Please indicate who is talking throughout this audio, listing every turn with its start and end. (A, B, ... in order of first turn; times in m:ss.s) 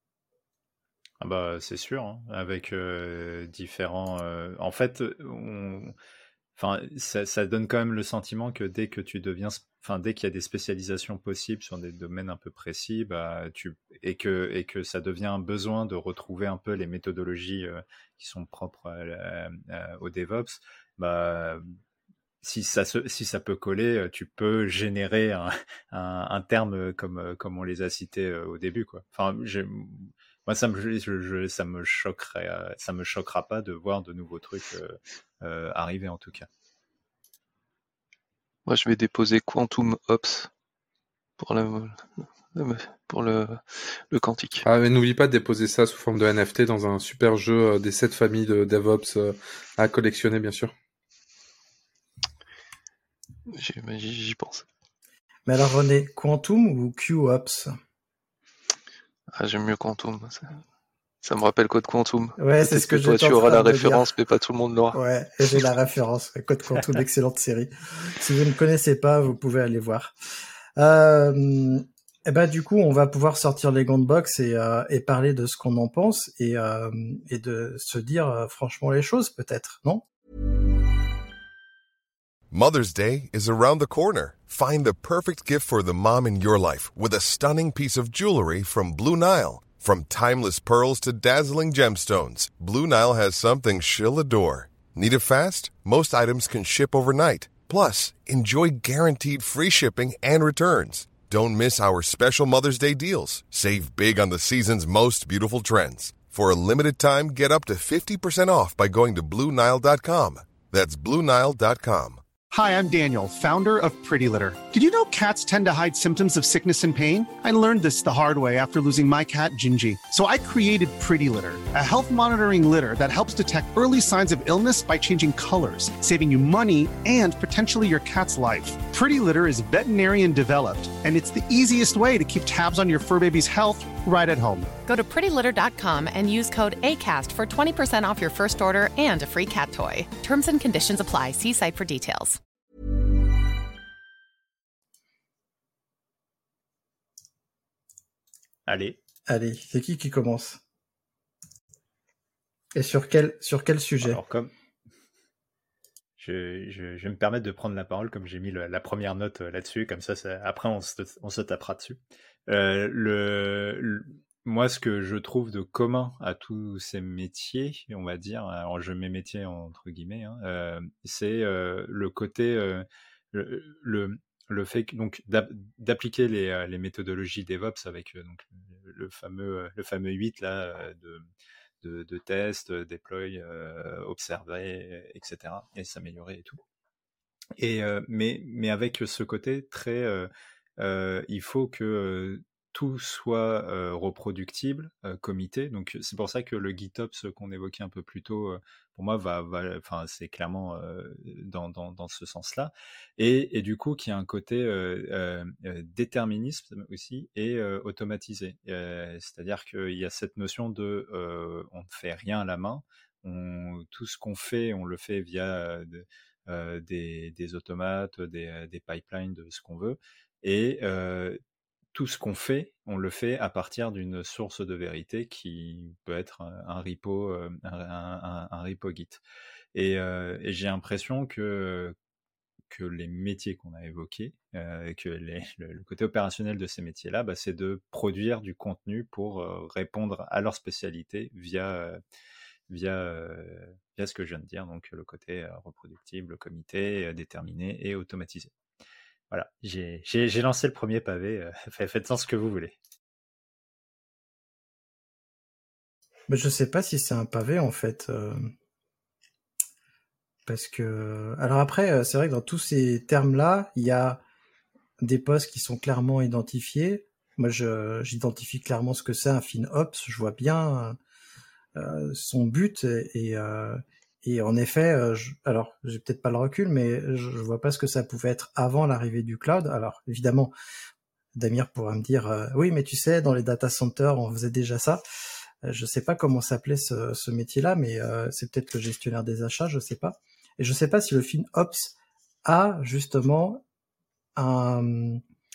0:01.2-0:06.0 A
0:06.6-0:21.7 A
0:22.4-0:36.5 A
0:38.7-0:40.5 B
0:41.4-0:44.6 B
0:44.6-0:50.7 C
0:53.5-0:54.6 B
0:55.5-0:57.7 D
0:59.4-1:00.6 B
1:01.2-1:05.0 B
1:02.4-1:04.1 D
1:04.9-1:10.1 D
1:10.8-1:20.0 D
1:22.5-1:52.2 E
1:52.5-2:14.7 F
2:14.9-2:22.4 G
2:28.7-2:29.0 A
2:29.3-2:30.6 D
2:32.8-2:34.2 D
2:34.0-2:34.5 A
2:36.2-3:01.3 A
3:01.8-3:06.6 A
3:07.6-3:41.4 A
3:41.9-3:49.2 A
3:49.7-3:52.0 A
3:52.7-4:02.0 A
4:02.7-4:08.5 A
4:09.3-4:12.8 A
4:16.3-4:18.5 D
4:20.5-4:24.2 D
4:25.0-4:31.0 D
4:31.8-4:40.5 D
4:41.4-4:45.0 D
4:45.6-4:53.6 D
4:54.4-4:55.2 D